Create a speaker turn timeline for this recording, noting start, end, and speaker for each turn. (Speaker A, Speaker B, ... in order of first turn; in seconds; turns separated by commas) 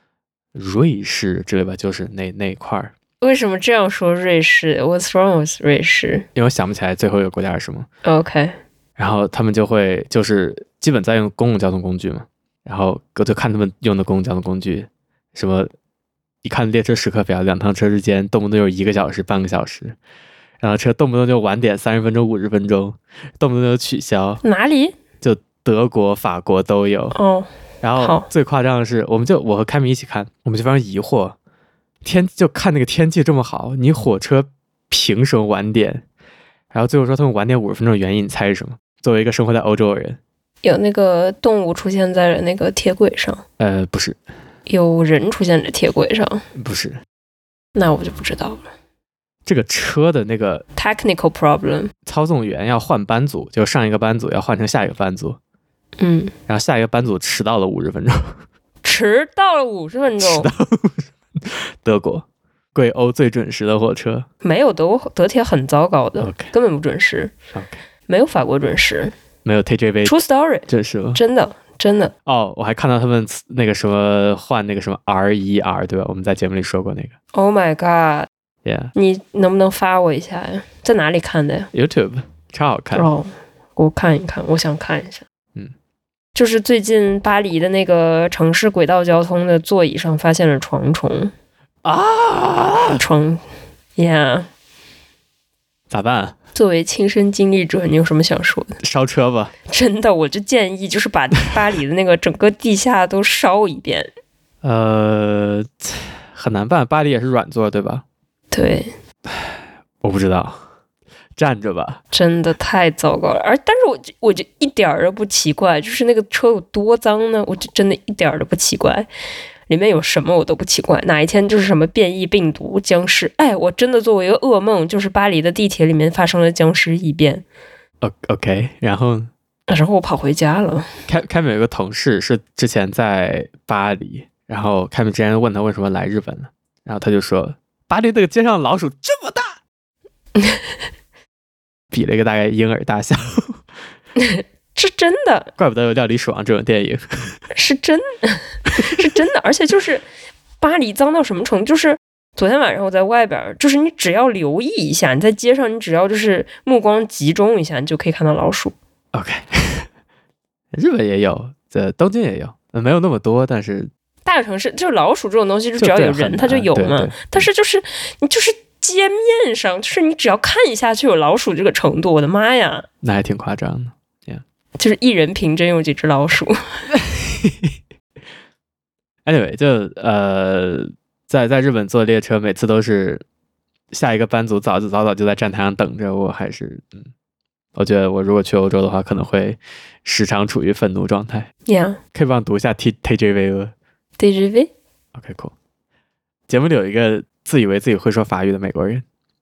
Speaker A: 0.5-2.9, Speaker B: 3.2-6.3, Speaker A: 6.3-7.9, Speaker B: 8.0-8.6, Speaker A: 9.0-15.7, Speaker A: 16.4-20.0, Speaker A: 20.6-24.4, Speaker B: 24.4-24.9, Speaker A: 25.2-27.2, Speaker B: 27.1-28.3, Speaker A: 27.8-31.4, Speaker A: 32.0-36.0, Speaker A: 36.7-40.2, Speaker B: 40.6-43.4, Speaker A: 43.6-44.2, Speaker B: 44.7-46.4, Speaker A: 46.5-47.0, Speaker B: 47.7-48.6, Speaker A: 49.5-50.6, Speaker B: 50.8-51.9, Speaker A: 52.0-55.4, Speaker B: 56.0-56.3, Speaker A: 56.5-58.4, Speaker B: 58.8-60.5, Speaker A: 60.2-64.3, Speaker B: 64.4-67.3, Speaker A: 66.2-66.5, Speaker B: 68.1-69.1, Speaker A: 69.4-70.1, Speaker B: 70.0-72.1, Speaker A: 70.7-71.2, Speaker A: 72.2-77.1, Speaker B: 77.3-78.3, Speaker A: 78.6-78.9, Speaker B: 78.9-81.7, Speaker A: 81.7-83.1, Speaker B: 82.9-85.2, Speaker B: 86.3-91.3, Speaker A: 91.8-93.0, Speaker B: 93.0-93.4, Speaker B: 94.0-94.5, Speaker A: 95.9-96.3, Speaker B: 96.5-98.8, Speaker A: 98.8-99.5, Speaker B: 99.7-104.1, Speaker A: 104.6-108.0, Speaker B: 108.5-108.9, Speaker A: 109.3-110.6, Speaker A: 111.3-112.0, Speaker B: 112.1-119.1, Speaker B: 119.7-127.4, Speaker A: 128.0-129.3, Speaker B: 129.7-130.9, Speaker A: 131.1-139.6, Speaker B: 140.3-140.7, Speaker A: 141.9-143.6, Speaker B: 144.2-145.5, Speaker A: 145.6-147.4, Speaker B: 147.5-150.1, Speaker B: 150.6-158.7, Speaker A: 159.1-159.9, Speaker A: 160.7-163.9, Speaker B: 164.2-172.9, Speaker A: 165.8-167.4, Speaker A: 173.0-174.4, Speaker B: 174.8-176.6, Speaker A: 176.9-177.7, Speaker A: 179.2-183.2, Speaker A: 183.9-187.1, Speaker A: 187.8-191.5, Speaker B: 191.7-192.0, Speaker A: 192.1-193.7, Speaker B: 194.2-194.7, Speaker A: 195.1-195.5, Speaker A: 196.5-199.0